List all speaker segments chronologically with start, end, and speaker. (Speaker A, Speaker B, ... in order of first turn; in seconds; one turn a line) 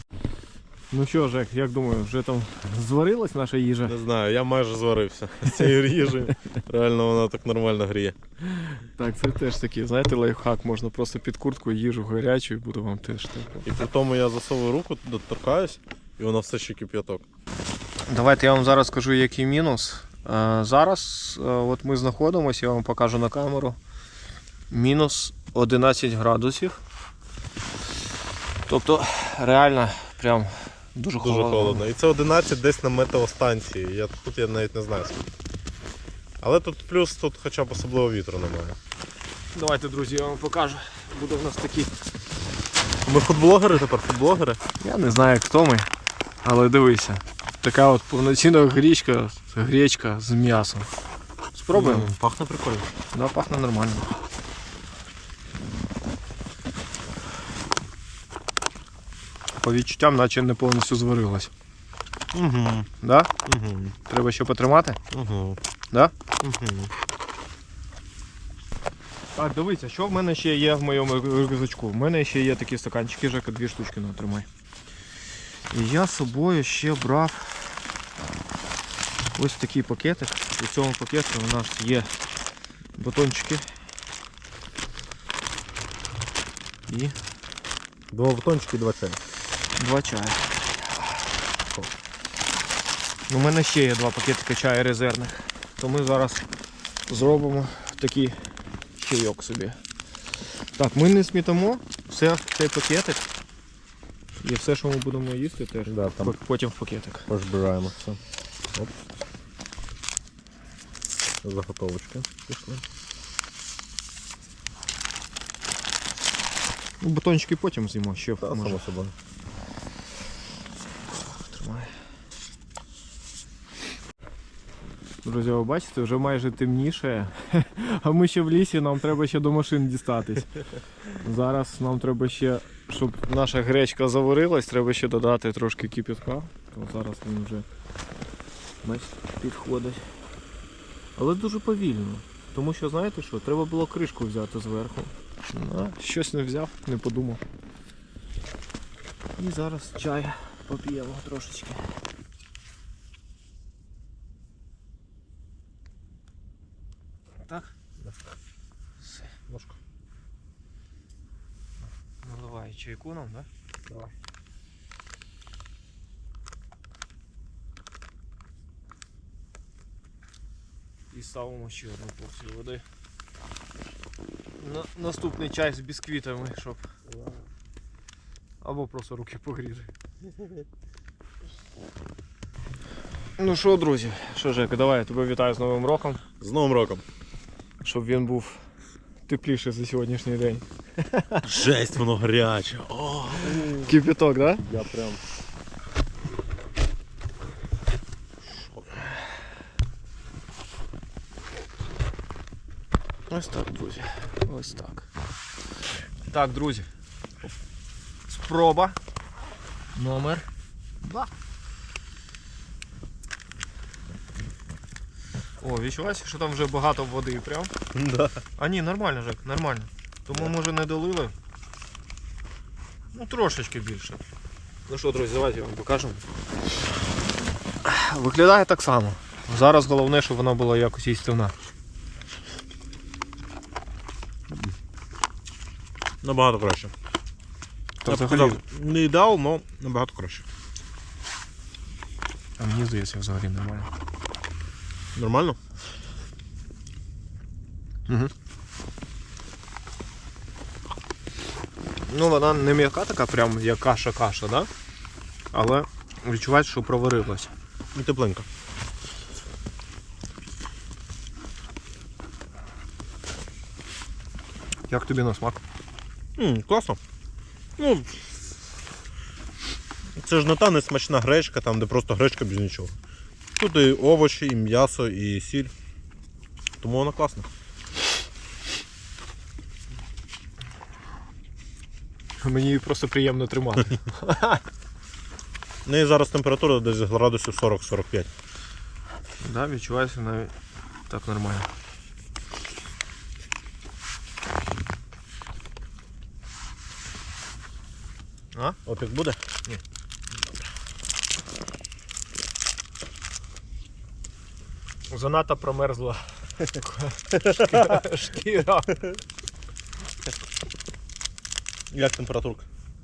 Speaker A: 0.9-4.0
Speaker B: 3.9-8.8
Speaker A: 9.0-13.7
Speaker B: 13.7-17.3
Speaker A: 18.1-23.8
Speaker A: 24.7-26.8
Speaker A: 28.7-31.9
Speaker B: 31.2-35.2
Speaker B: 36.4-38.8
Speaker A: 39.5-41.9
Speaker B: 43.0-44.6
Speaker A: 44.8-45.9
Speaker A: 46.4-50.9
Speaker A: 51.5-52.1
Speaker B: 51.7-52.9
Speaker A: 53.1-54.1
Speaker A: 59.6-61.5
Speaker B: 62.3-62.9
Speaker A: 63.0-63.3
Speaker B: 63.5-64.0
Speaker A: 64.0-65.0
Speaker B: 65.1-65.6
Speaker B: 66.4-66.9
Speaker A: 69.4-74.5
Speaker A: 75.7-77.8
Speaker A: 79.3-82.1
Speaker A: 83.0-83.7
Speaker A: 86.9-87.2
Speaker B: 88.1-89.2
Speaker A: 89.8-91.1
Speaker A: 93.3-96.4
Speaker A: 97.1-98.4
Speaker A: 99.0-99.8
Speaker A: 100.8-103.3
Speaker A: 104.4-107.3
Speaker B: 105.9-106.3
Speaker B: 107.3-108.2
Speaker B: 111.4-112.8
Speaker A: 117.0-118.8
Speaker B: 118.4-119.1
Speaker A: 121.3-121.9
Speaker A: 125.2-130.5
Speaker A: 131.2-137.7
Speaker A: 138.8-140.1
Speaker A: 141.2-147.4
Speaker A: 149.4-151.9
Speaker A: 157.5-157.7
Speaker A: 159.0-159.3
Speaker B: 159.5-159.8
Speaker A: 162.2-163.5
Speaker A: 171.1-172.8
Speaker A: 174.6-176.8
Speaker A: 178.6-179.9
Speaker A: 183.4-186.2
Speaker B: 186.4-187.0
Speaker A: 187.8-188.6
Speaker A: 189.3-191.5
Speaker B: 191.4-193.9
Speaker A: 193.6-194.6
Speaker B: 194.6-195.2
Speaker A: 203.3-205.1
Speaker A: 206.3-206.9
Speaker A: 208.3-209.0
Speaker A: 209.9-210.5
Speaker A: 211.0-211.3
Speaker A: 215.6-217.7
Speaker B: 217.9-218.4
Speaker A: 218.6-221.3
Speaker A: 223.1-224.2
Speaker A: 224.9-226.2
Speaker A: 227.8-231.5
Speaker B: 236.2-236.9
Speaker A: 238.0-238.6
Speaker B: 238.1-240.4
Speaker A: 242.6-243.9
Speaker B: 245.2-245.6
Speaker A: 248.1-248.3
Speaker A: 252.1-254.7
Speaker A: 255.5-257.5
Speaker B: 257.9-258.5
Speaker A: 264.9-265.6
Speaker B: 266.4-267.0
Speaker B: 267.8-268.1
Speaker B: 270.2-273.0
Speaker B: 273.6-275.7
Speaker B: 276.8-277.5
Speaker A: 282.4-284.6
Speaker B: 285.9-288.3
Speaker A: 289.4-290.5
Speaker A: 291.1-291.7
Speaker A: 298.5-298.8
Speaker B: 298.9-299.4
Speaker A: 305.1-309.1
Speaker B: 307.3-308.0
Speaker B: 311.9-312.7